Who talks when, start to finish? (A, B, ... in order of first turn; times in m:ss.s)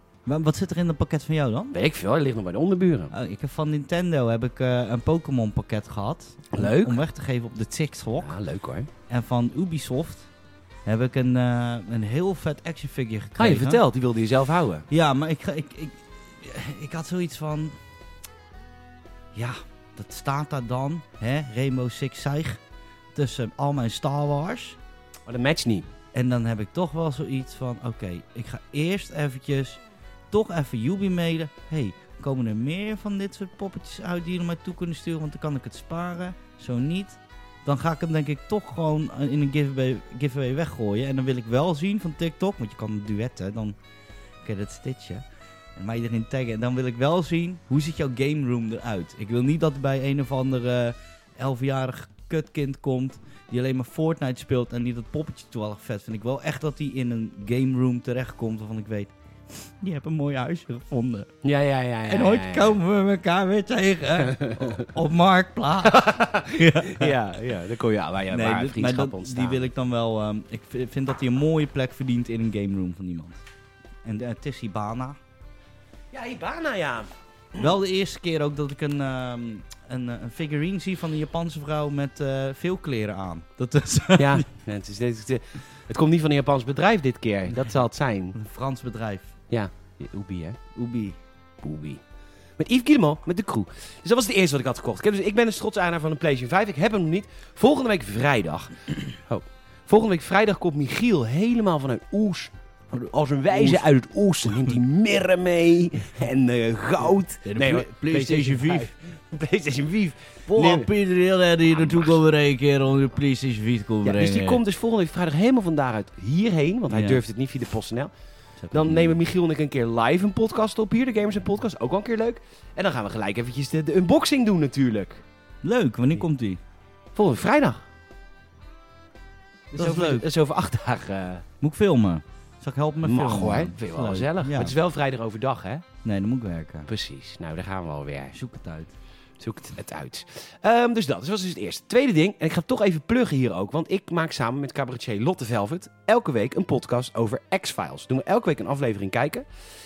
0:00.2-0:01.7 A
0:01.7-0:03.1 B
0:03.1-0:08.4 A
0:06.5-0:07.0 B
0:08.2-0:08.9 B
0:09.1-0:10.3 A
0:10.8-0:13.8 A
0:13.4-0:14.8 B
0:14.9-0:17.8 A
0:19.3-0:22.6 A
0:23.1-0:24.8 A
0:25.3-0:25.9 B
0:26.1-0:29.8 A
0:30.3-0:43.8 A
0:44.4-0:45.2 A
0:45.8-1:01.3 A
1:01.4-1:02.8 B
1:02.1-1:07.2 A
1:04.3-1:04.9 B
1:05.8-1:09.7 B
1:08.3-1:13.4 A
1:14.0-1:15.2 A
1:16.1-1:17.7 B
1:17.6-1:24.4 A
1:24.2-1:28.4 B
1:28.3-1:29.3 A
1:29.5-1:30.6 B
1:30.7-1:31.2 A
1:31.6-1:32.0 B
1:32.6-1:50.9 B
1:43.5-1:43.8 A
1:44.4-1:44.8 A
1:47.4-1:48.9 A
1:50.5-1:54.6 A
1:51.8-1:52.1 B
1:54.0-1:58.1 B
1:56.9-1:57.2 A
1:58.6-1:59.2 A
1:58.7-2:05.2 B
2:05.6-2:06.6 A
2:07.1-2:07.8 B
2:09.7-2:11.4 B
2:09.8-2:10.3 A
2:11.6-2:14.7 A
2:13.0-2:15.8 B
2:16.0-2:16.9 A
2:16.9-2:18.4 B
2:18.3-2:18.9 A
2:19.4-2:29.4 B